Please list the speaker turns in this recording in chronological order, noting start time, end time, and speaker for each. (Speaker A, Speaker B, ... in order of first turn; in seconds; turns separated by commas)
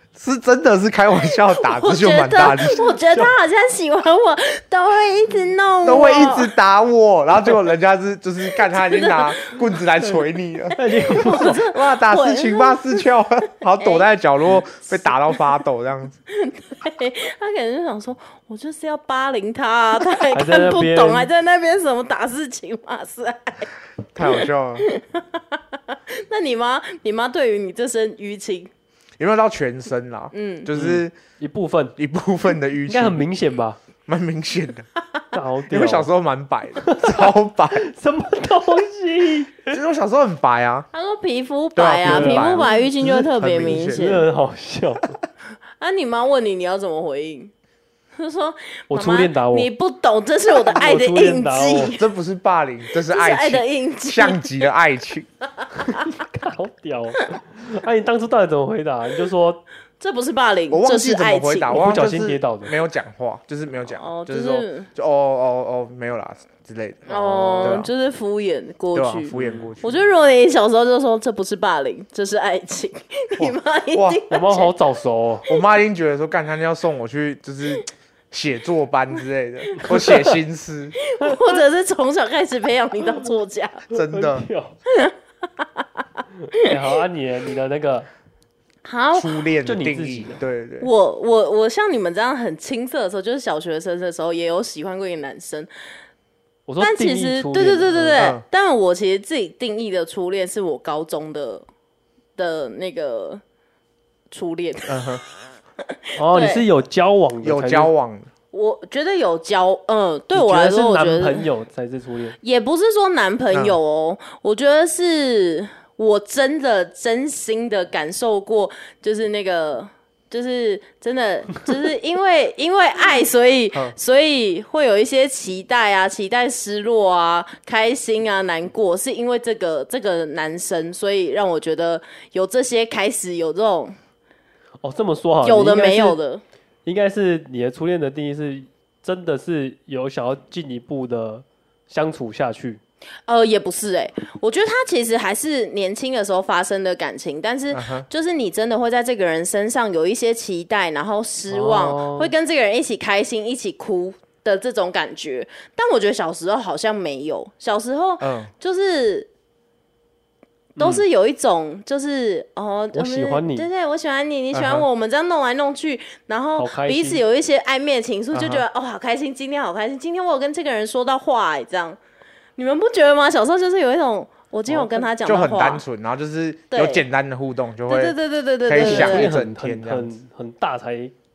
Speaker A: 0.1-2.9, Speaker B: 1.5-6.5, Speaker A: 5.8-16.2, Speaker B: 8.5-9.7, Speaker C: 10.7-11.6, Speaker B: 10.8-13.1, Speaker B: 13.8-14.1, Speaker B: 14.8-15.4, Speaker B: 16.3-28.7, Speaker C: 20.3-21.3, Speaker A: 24.1-24.9, Speaker A: 29.2-31.1, Speaker B: 30.3-30.7, Speaker C: 30.7-31.9, Speaker A: 32.0-33.2, Speaker C: 32.9-33.8, Speaker A: 34.0-34.9, Speaker C: 35.3-36.1, Speaker A: 35.7-37.9, Speaker C: 36.8-39.8, Speaker A: 39.7-40.9, Speaker B: 40.9-44.2, Speaker A: 41.7-44.1, Speaker C: 42.0-42.7, Speaker C: 43.9-45.1, Speaker B: 45.8-47.5, Speaker B: 48.1-52.0, Speaker C: 48.9-49.7, Speaker C: 50.6-51.9, Speaker A: 52.0-55.3, Speaker B: 53.1-54.6, Speaker C: 55.8-59.6, Speaker B: 60.0-61.8, Speaker A: 60.7-67.9, Speaker C: 61.7-62.7, Speaker B: 63.9-64.9, Speaker B: 67.1-74.7, Speaker C: 67.3-67.8, Speaker A: 68.9-70.0, Speaker C: 69.3-69.7, Speaker A: 73.4-74.2, Speaker C: 74.3-75.5, Speaker A: 75.5-81.0, Speaker B: 79.7-80.3, Speaker C: 79.9-80.3, Speaker B: 81.0-83.8, Speaker C: 81.2-81.5, Speaker A: 83.9-84.5, Speaker C: 83.9-84.8, Speaker B: 84.9-85.8, Speaker C: 86.5-88.1, Speaker B: 88.8-89.4, Speaker A: 89.1-90.9, Speaker C: 89.6-90.4, Speaker B: 90.8-95.7, Speaker C: 96.7-98.2, Speaker B: 96.8-101.7, Speaker A: 98.2-98.4, Speaker B: 102.4-103.4, Speaker B: 104.3-105.2, Speaker A: 104.9-105.2, Speaker C: 106.2-107.9, Speaker B: 106.3-106.6, Speaker A: 107.4-108.3, Speaker B: 108.5-111.5, Speaker C: 110.3-112.4, Speaker B: 112.4-133.9, Speaker A: 113.5-113.8, Speaker C: 134.8-136.2, Speaker B: 135.4-136.4, Speaker C: 136.8-142.8, Speaker B: 143.3-159.3, Speaker A: 147.7-148.1, Speaker C: 151.5-152.3, Speaker A: 158.2-158.5, Speaker C: 160.8-161.0, Speaker B: 160.8-172.0, Speaker C: 162.9-163.7, Speaker A: 164.5-164.9, Speaker C: 166.6-167.2, Speaker A: 168.3-168.7, Speaker B: 172.6-175.8, Speaker C: 174.7-175.1, Speaker A: 175.2-180.1, Speaker B: 176.7-177.0, Speaker B: 177.9-179.3, Speaker C: 178.7-181.1